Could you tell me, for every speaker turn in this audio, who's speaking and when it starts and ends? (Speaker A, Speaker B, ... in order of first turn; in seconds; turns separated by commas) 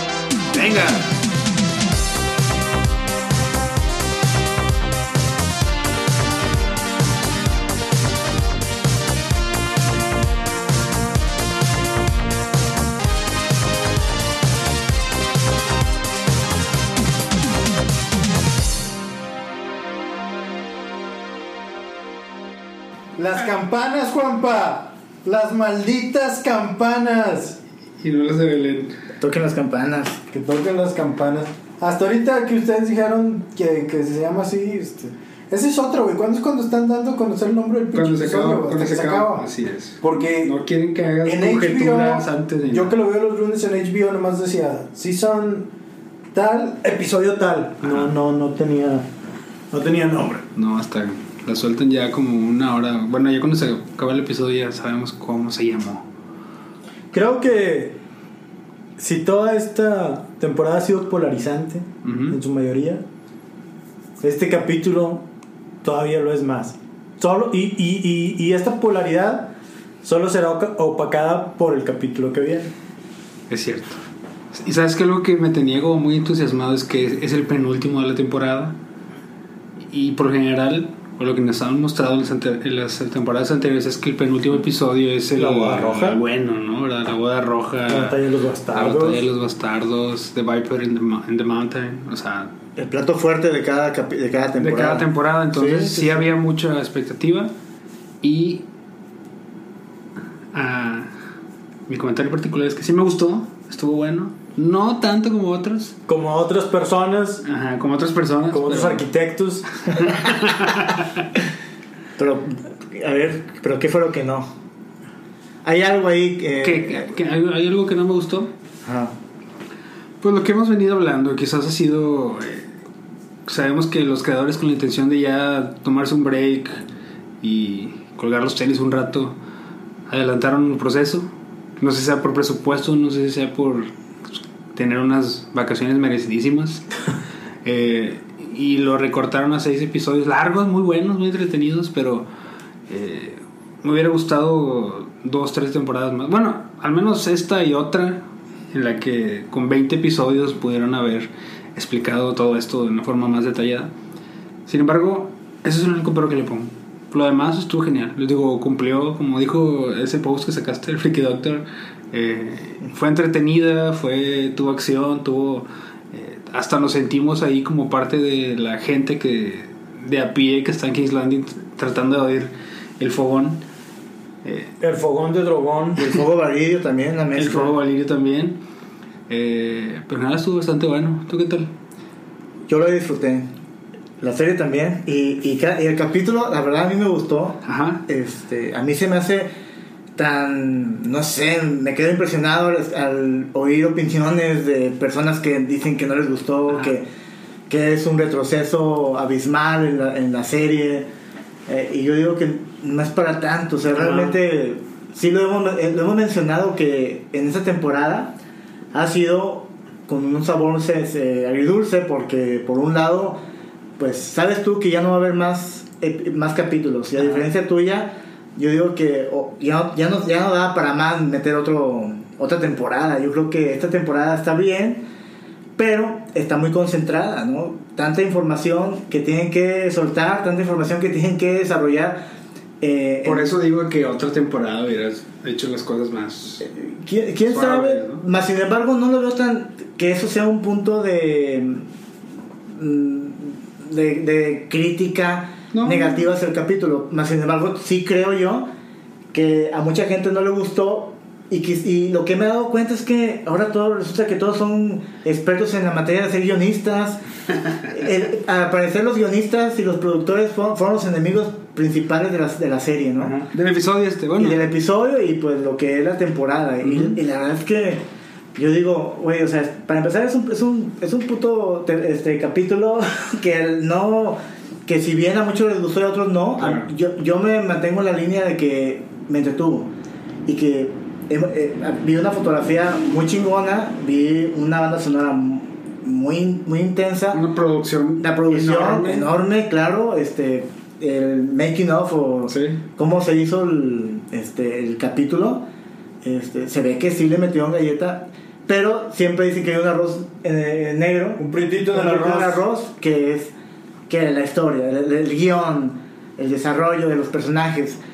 Speaker A: 0.5-1.1, Speaker B: 23.2-27.6, Speaker A: 28.0-28.9, Speaker C: 29.2-30.2, Speaker B: 30.3-39.5, Speaker A: 37.9-43.0, Speaker B: 40.0-40.5, Speaker B: 41.2-45.7, Speaker B: 46.3-49.1, Speaker A: 47.8-48.1, Speaker B: 49.7-50.5, Speaker A: 50.5-56.0, Speaker B: 57.1-58.0, Speaker B: 59.0-63.0, Speaker A: 62.0-62.4, Speaker B: 64.2-65.3, Speaker B: 65.8-72.7, Speaker A: 73.5-74.0, Speaker A: 74.5-78.8, Speaker A: 79.8-88.2, Speaker B: 85.3-86.2, Speaker B: 87.9-89.2, Speaker A: 88.7-92.5, Speaker C: 92.8-96.3, Speaker A: 94.6-97.5, Speaker A: 98.2-98.7, Speaker A: 100.5-101.1, Speaker A: 101.9-106.0, Speaker B: 106.1-107.5, Speaker A: 107.5-109.0, Speaker B: 108.5-109.7, Speaker A: 110.0-111.2, Speaker C: 112.2-114.5, Speaker C: 115.7-117.1, Speaker A: 116.6-118.5, Speaker C: 118.8-119.2, Speaker A: 120.2-122.7, Speaker A: 123.5-126.8, Speaker A: 127.4-129.4, Speaker A: 130.1-131.3, Speaker A: 131.8-136.9, Speaker A: 137.7-142.3, Speaker A: 142.9-153.9, Speaker A: 154.7-173.6, Speaker A: 174.4-174.7, Speaker B: 174.8-176.2, Speaker C: 175.9-177.7, Speaker A: 177.4-178.6, Speaker A: 179.3-181.7, Speaker C: 182.7-183.5, Speaker C: 184.2-189.5, Speaker A: 187.6-188.0, Speaker C: 190.2-197.1, Speaker A: 196.7-197.0, Speaker C: 197.7-201.1, Speaker C: 201.7-208.4, Speaker A: 203.9-204.4, Speaker C: 208.9-213.4, Speaker C: 214.0-225.1, Speaker C: 225.8-232.3, Speaker C: 232.8-233.5, Speaker A: 233.2-236.7, Speaker C: 236.6-241.9, Speaker A: 237.4-238.2, Speaker C: 242.7-248.7, Speaker A: 245.7-246.3, Speaker C: 249.3-257.2, Speaker C: 257.8-263.4, Speaker A: 263.2-264.6, Speaker C: 264.4-268.0, Speaker A: 266.8-267.2, Speaker C: 268.6-279.9, Speaker A: 276.6-276.9, Speaker C: 280.5-287.4, Speaker A: 287.3-289.3, Speaker C: 288.2-295.7, Speaker A: 292.5-292.8, Speaker C: 296.2-303.5, Speaker B: 301.4-302.6, Speaker C: 304.1-308.0